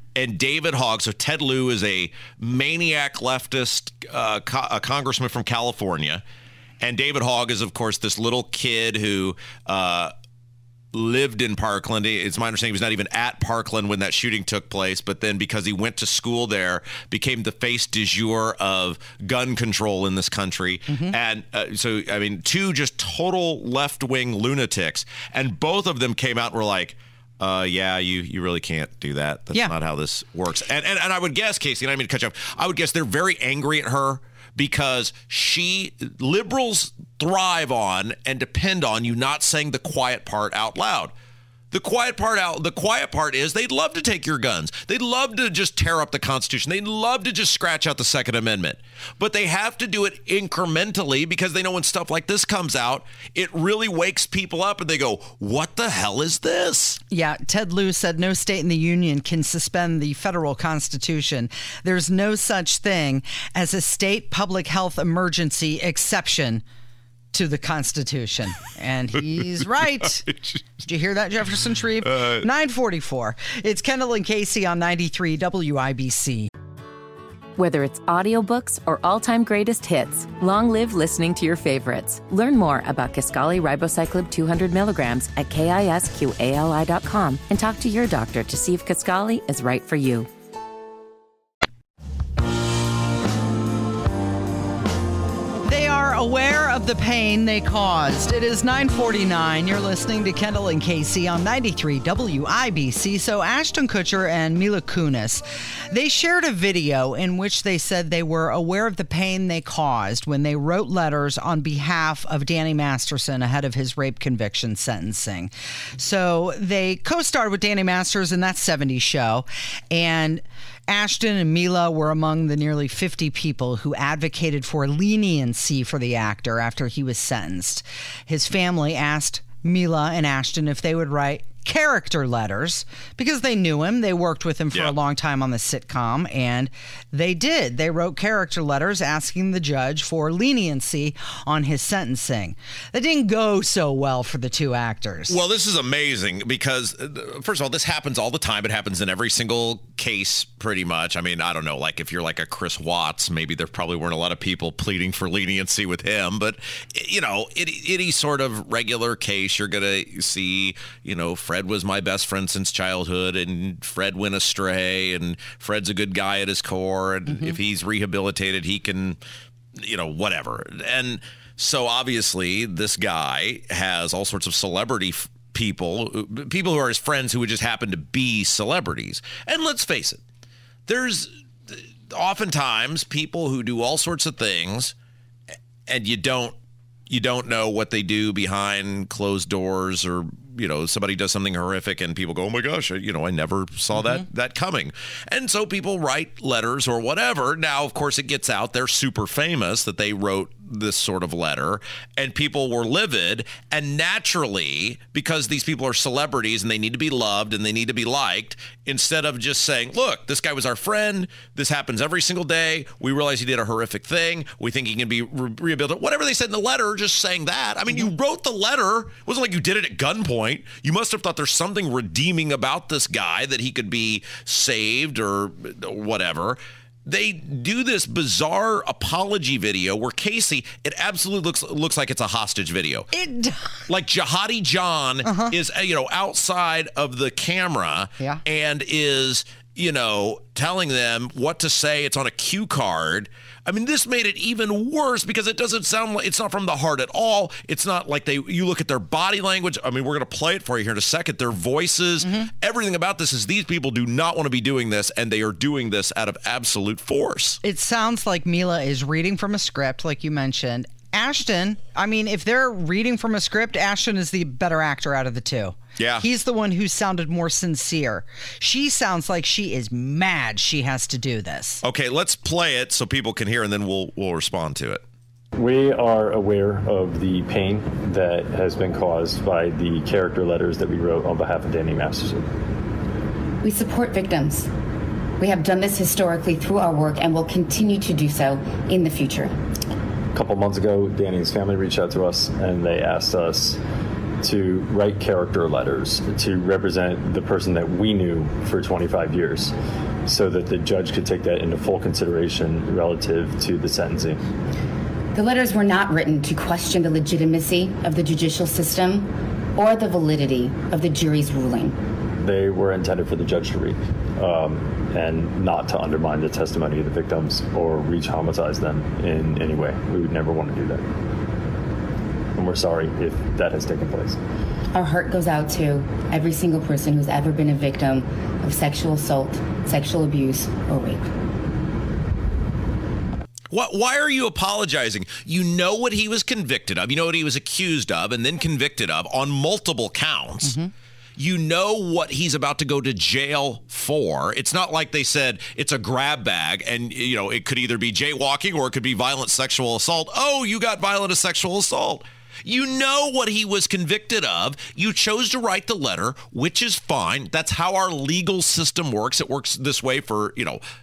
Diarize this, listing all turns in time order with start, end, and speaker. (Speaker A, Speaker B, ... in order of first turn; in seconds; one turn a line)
Speaker A: 0.1-6.2
Speaker A: 6.8-10.1
Speaker A: 10.9-41.1
Speaker A: 41.7-57.0
Speaker B: 57.1-66.6
Speaker B: 67.3-76.5
Speaker A: 72.1-72.4
Speaker C: 77.6-90.3
Speaker B: 95.6-145.4
Speaker A: 145.3-169.2
Speaker A: 169.8-180.2
Speaker A: 180.9-184.9
Speaker A: 185.9-186.5
Speaker A: 187.1-233.1
Speaker B: 233.1-233.8
Speaker A: 233.9-257.6
Speaker B: 235.2-235.5
Speaker B: 257.6-271.8
Speaker A: 266.0-266.2
Speaker A: 271.8-275.0
Speaker D: 275.6-282.5
Speaker E: 283.6-284.7
Speaker E: 285.4-289.5
Speaker D: 290.3-293.8
Speaker D: 294.4-299.7
Speaker D: 300.3-304.4
Speaker E: 305.3-312.0
Speaker D: 312.4-321.1
Speaker D: 322.5-324.4
Speaker E: 324.9-331.3
Speaker A: 333.7-340.8
Speaker A: 341.4-360.8